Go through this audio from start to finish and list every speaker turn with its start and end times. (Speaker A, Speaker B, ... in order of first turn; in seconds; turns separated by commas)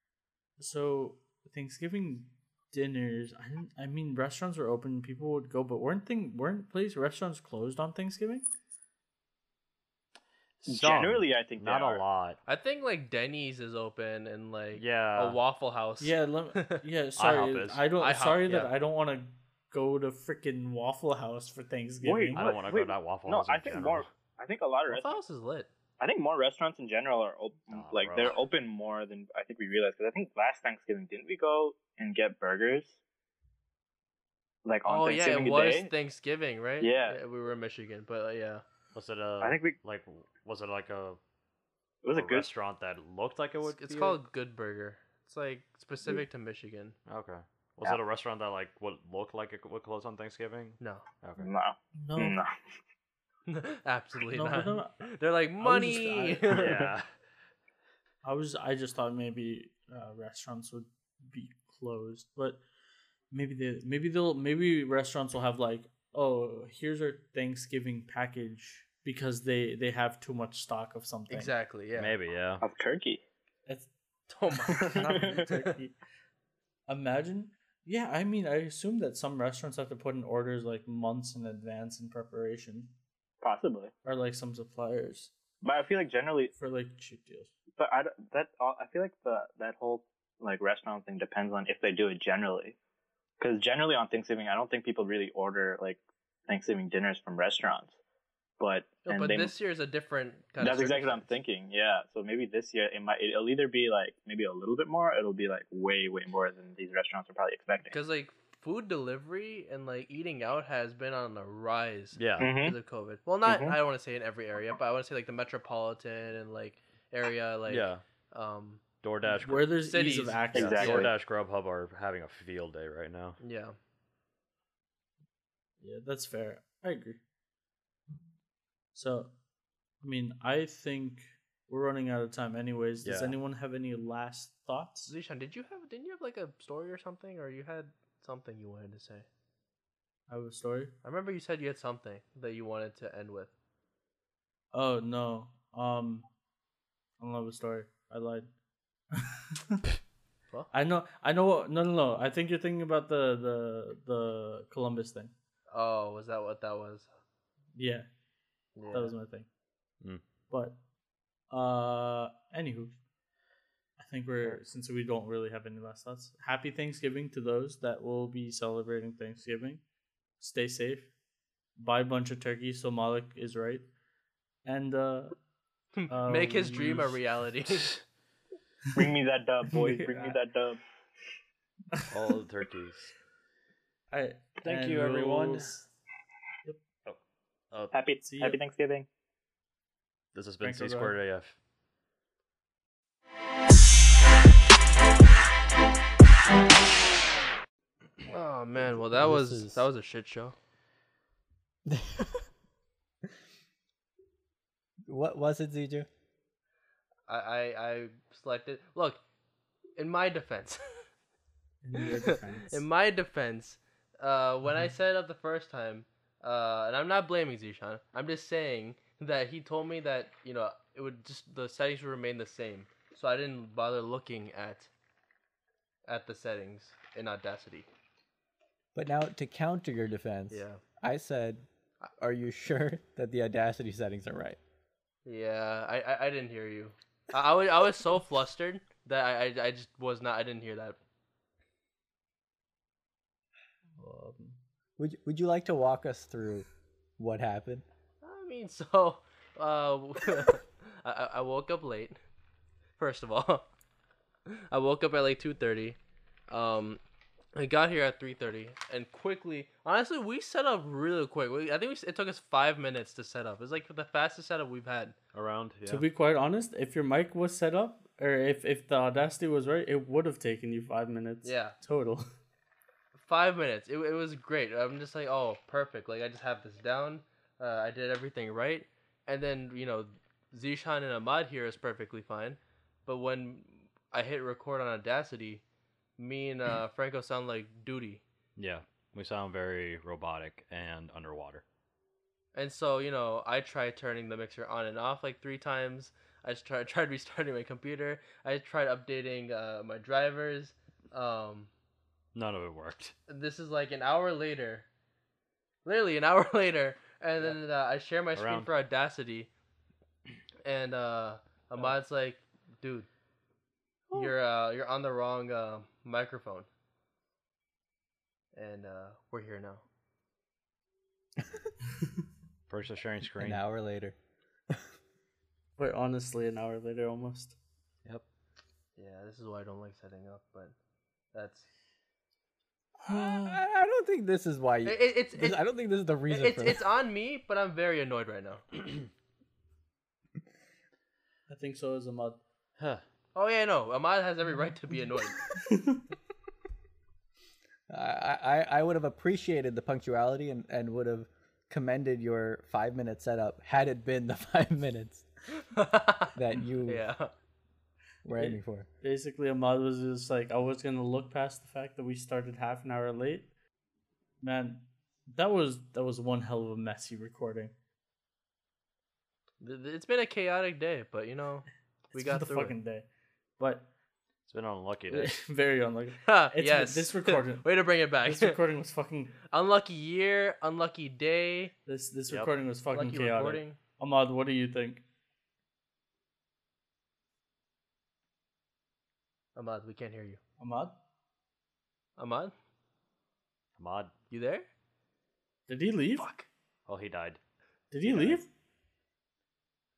Speaker A: 0.6-8.5, Speaker B: 10.6-12.4, Speaker C: 10.7-12.0, Speaker D: 12.5-16.8, Speaker B: 14.7-15.4, Speaker A: 16.0-22.5, Speaker B: 17.2-17.9, Speaker D: 18.0-18.7, Speaker C: 22.0-25.2, Speaker B: 22.3-24.1, Speaker D: 24.9-25.7, Speaker C: 26.0-33.0, Speaker B: 27.7-28.4, Speaker C: 34.6-35.9, Speaker D: 34.9-38.6, Speaker C: 36.8-37.2, Speaker B: 38.9-41.2, Speaker C: 39.4-39.8, Speaker C: 42.0-42.5, Speaker B: 42.1-44.2, Speaker D: 43.6-47.0, Speaker B: 47.1-51.5, Speaker D: 50.8-51.0, Speaker C: 51.4-52.5, Speaker A: 52.0-52.4, Speaker D: 53.5-56.8, Speaker A: 54.3-55.0, Speaker A: 55.6-56.9, Speaker B: 56.5-57.1, Speaker A: 58.2-62.6, Speaker A: 63.3-71.5, Speaker D: 71.3-72.2, Speaker B: 72.0-72.6, Speaker C: 72.6-73.2, Speaker A: 73.7-73.9, Speaker D: 74.3-75.7, Speaker A: 74.6-76.0, Speaker C: 74.7-75.0, Speaker A: 76.9-83.0, Speaker C: 83.4-83.9, Speaker A: 84.0-85.3, Speaker C: 85.6-86.5, Speaker A: 86.5-87.5, Speaker C: 87.8-92.8, Speaker C: 93.4-98.0, Speaker C: 98.6-99.5, Speaker D: 99.0-101.3, Speaker C: 100.6-108.0, Speaker D: 107.9-118.8, Speaker B: 112.2-112.5, Speaker C: 112.4-112.8, Speaker C: 113.5-113.8, Speaker B: 117.7-118.0, Speaker B: 119.0-119.7, Speaker A: 119.3-121.0, Speaker D: 119.8-121.1, Speaker C: 120.5-121.1, Speaker B: 120.5-123.4, Speaker D: 123.4-123.8, Speaker A: 125.8-127.2, Speaker A: 128.9-129.3, Speaker A: 130.0-135.1, Speaker B: 133.0-133.4, Speaker D: 135.1-139.3, Speaker A: 140.3-140.9, Speaker D: 141.0-143.5, Speaker A: 144.7-146.3, Speaker A: 147.2-148.5, Speaker A: 149.2-149.8, Speaker A: 150.7-155.3, Speaker D: 155.7-157.1, Speaker A: 157.8-158.1, Speaker D: 158.8-159.1, Speaker A: 158.9-159.5, Speaker A: 160.5-160.8, Speaker A: 161.5-162.9, Speaker A: 164.0-169.8, Speaker A: 170.4-171.1, Speaker A: 171.8-173.8, Speaker A: 174.7-175.4, Speaker D: 175.9-178.0, Speaker A: 176.1-177.2, Speaker C: 178.9-180.8, Speaker A: 179.7-180.4, Speaker B: 182.1-183.1, Speaker A: 184.1-185.9, Speaker B: 184.6-185.7, Speaker C: 187.9-189.1, Speaker A: 188.2-188.6, Speaker B: 190.3-191.6, Speaker A: 190.6-191.2, Speaker D: 198.3-200.6, Speaker E: 198.8-199.9, Speaker E: 201.9-202.4, Speaker E: 205.1-206.1, Speaker D: 207.3-209.2, Speaker D: 210.0-210.8, Speaker A: 211.8-212.8, Speaker D: 212.0-224.9, Speaker D: 226.1-227.9, Speaker E: 228.9-231.7, Speaker D: 230.5-230.8, Speaker E: 232.2-234.6, Speaker D: 235.2-241.0, Speaker A: 244.0-244.6, Speaker E: 245.0-246.7, Speaker E: 247.2-247.8, Speaker D: 248.2-252.2, Speaker D: 253.0-253.7, Speaker D: 254.5-256.0, Speaker D: 256.5-257.0, Speaker D: 257.6-265.2, Speaker B: 265.3-266.1, Speaker A: 265.9-272.2, Speaker D: 271.4-271.8, Speaker D: 273.2-285.6, Speaker D: 286.2-288.2, Speaker B: 288.6-291.6, Speaker D: 292.5-301.7, Speaker B: 302.4-303.1, Speaker D: 303.3-304.9, Speaker D: 305.9-309.5, Speaker B: 308.4-308.7, Speaker D: 310.6-313.1, Speaker D: 314.1-316.7, Speaker D: 318.5-319.8, Speaker B: 322.7-323.6, Speaker E: 323.4-324.1, Speaker A: 325.8-327.6, Speaker D: 329.0-330.8, Speaker D: 331.3-331.7, Speaker A: 333.0-333.6, Speaker E: 333.1-336.8, Speaker D: 334.9-335.6, Speaker D: 336.3-338.6, Speaker A: 341.5-342.4, Speaker D: 343.4-345.4, Speaker A: 345.7-346.0, Speaker E: 347.9-355.3, Speaker D: 355.6-357.3, Speaker E: 356.3-357.1, Speaker E: 358.2-358.9, Speaker A: 358.4-363.5, Speaker A: 364.4-367.7, Speaker D: 369.6-372.8, Speaker A: 372.1-373.9, Speaker B: 374.5-375.3, Speaker A: 375.1-377.7, Speaker D: 376.2-378.6, Speaker A: 378.2-379.4, Speaker D: 379.5-381.7, Speaker A: 381.9-385.0, Speaker D: 382.9-383.8, Speaker D: 389.6-390.4, Speaker A: 390.6-391.0, Speaker D: 392.2-392.5, Speaker B: 393.8-394.1, Speaker D: 394.3-394.7, Speaker A: 395.7-396.3, Speaker D: 396.2-396.5, Speaker B: 396.9-397.4, Speaker A: 397.9-398.5, Speaker B: 398.1-398.4